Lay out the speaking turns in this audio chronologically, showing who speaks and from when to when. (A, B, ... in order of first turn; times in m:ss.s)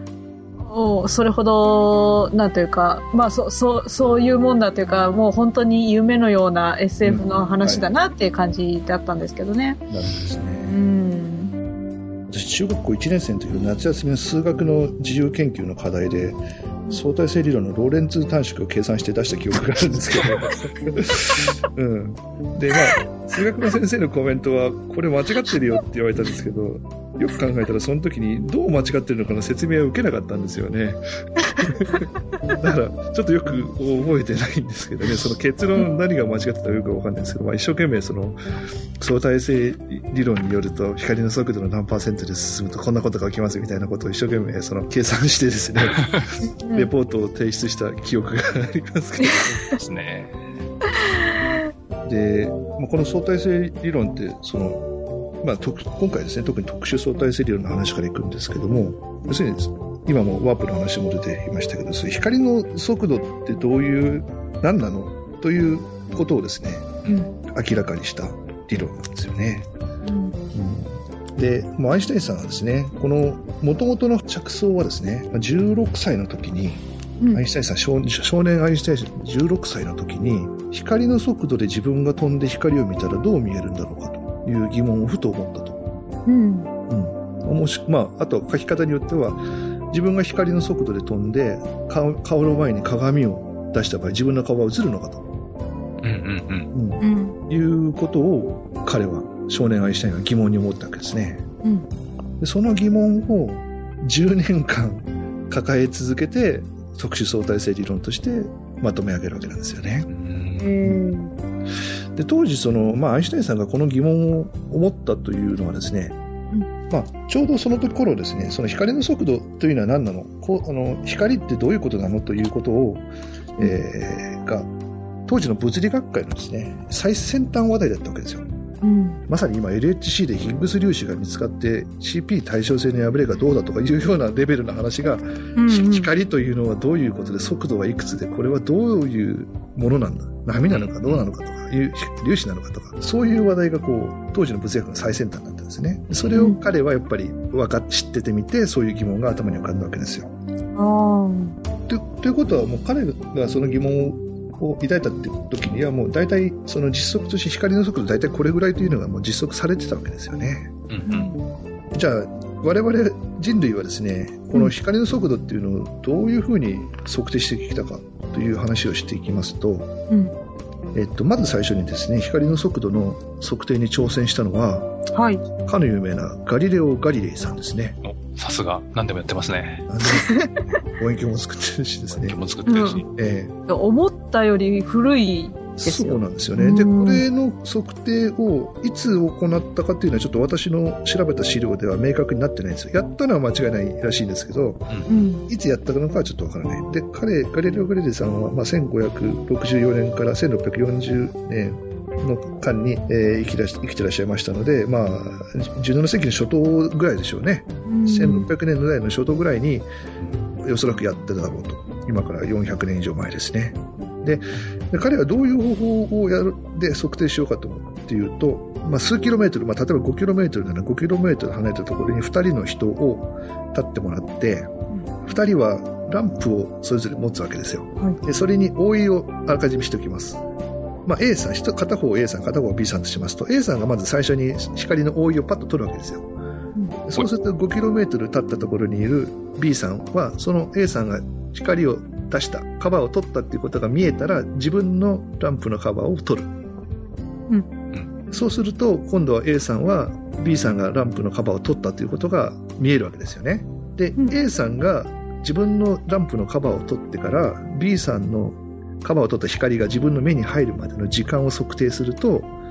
0:00.6-0:09.8 A
0:07.0-0:07.9 B
0:09.9-0:10.8 B
0:10.6-0:11.5 A
0:12.3-0:31.0 B
0:31.6-0:38.4 B
0:39.0-0:49.5 B
0:46.0-0:46.2 C
0:46.4-0:46.9 A
0:49.4-0:50.3 C
0:52.0-0:54.8 B
0:55.4-1:09.7 B
1:10.0-1:10.3 A
1:10.5-1:25.8 B
1:26.2-1:26.7 A
1:26.9-1:35.2 B
1:36.0-1:36.7 C
1:36.7-1:41.4 B
1:37.0-1:37.4 A
1:42.4-1:50.1 B
1:50.1-1:50.7 C
1:50.6-1:51.3 A
1:52.1-1:56.2 B
1:56.9-2:03.0 B
2:03.6-2:04.7 B
2:05.3-2:08.4 B
2:08.8-2:09.2 A
2:09.3-2:30.3 B
2:15.6-2:16.1 A
2:20.7-2:21.2 C
2:26.1-2:26.4 C
2:26.3-2:26.6 A
2:30.8-2:31.6 A
2:31.9-2:40.7 B
2:40.9-2:41.3 C
2:41.1-2:41.4 A
2:41.9-2:49.9 B
2:50.9-2:54.9 B
2:55.1-2:55.4 A
2:55.6-2:58.0 B
2:58.0-2:59.9 C
2:59.9-3:02.4 B
3:00.0-3:00.4 A
3:02.2-3:03.1 C
3:02.7-3:03.0 A
3:03.1-3:03.5 B
3:03.7-3:07.2 A
3:05.8-3:14.9 B
3:15.1-3:15.4 A
3:15.5-3:29.9 B
3:27.8-3:28.5 A
3:30.6-3:50.4 B
3:51.0-3:56.3 B
3:57.0-4:06.6 B
4:08.3-4:22.5 B